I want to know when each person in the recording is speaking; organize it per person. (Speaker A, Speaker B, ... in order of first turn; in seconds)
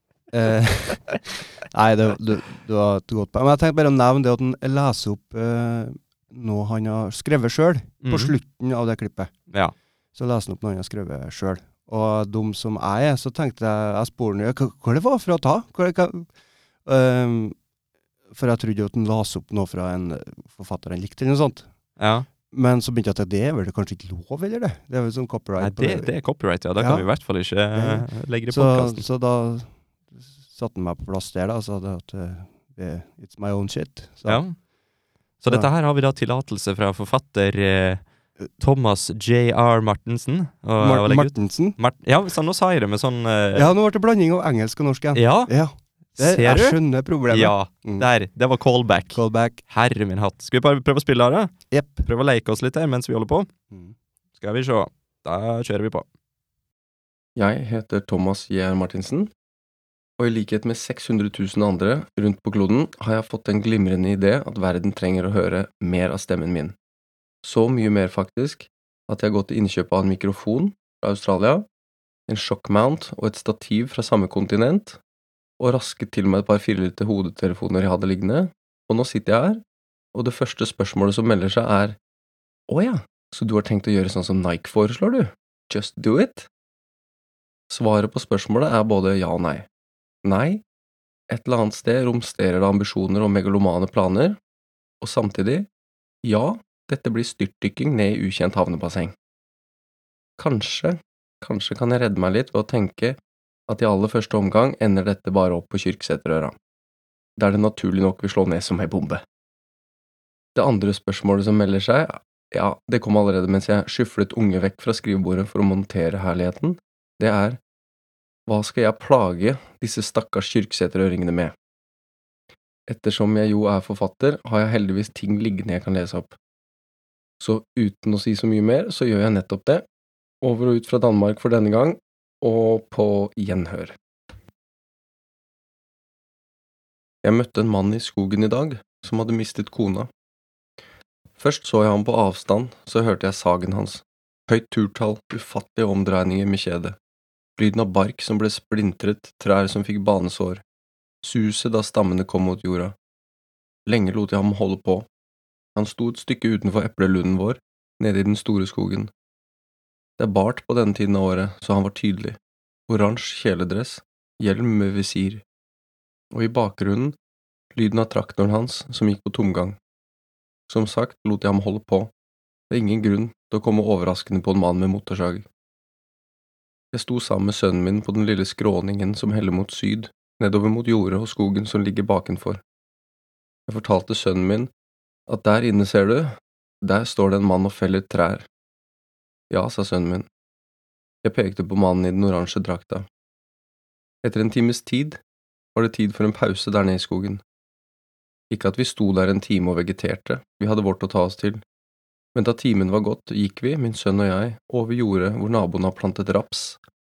Speaker A: 0.3-9.3, 10.2-16.3, 16.9-17.6, 18.3-21.7, 22.5-26.1, 26.8-27.1, 27.8-34.4, 40.8-41.8, 43.5-48.1, 49.1-49.6, 51.7-52.1
Speaker B: 8.0-8.3, 22.0-22.3, 25.6-29.1, 34.3-34.6, 35.4-38.0, 38.6-43.7, 45.1-45.5, 46.2-53.5, 54.4-56.1
Speaker C: 57.4-59.3, 60.2-66.8, 67.4-71.7, 72.3-75.0, 75.6-79.6, 80.1-82.0, 82.7-86.5, 87.7-89.7, 90.2-90.6, 91.3-94.4, 95.0-95.7, 96.2-99.1, 100.4-106.5, 107.4-109.2, 110.5-117.6, 118.5-121.5, 122.9-126.4, 127.4-129.8, 130.4-133.9, 137.2-140.1, 141.4-147.0, 147.6-150.6, 151.2-152.9, 153.9-155.1, 155.8-159.1, 160.2-165.4, 166.3-167.2, 167.7-169.8, 170.7-172.1, 172.7-175.5, 176.9-182.6, 183.7-184.7, 185.3-188.5, 189.5-190.3, 191.2-193.1, 194.2-195.2, 195.8-197.4, 198.5-201.6, 202.3-206.8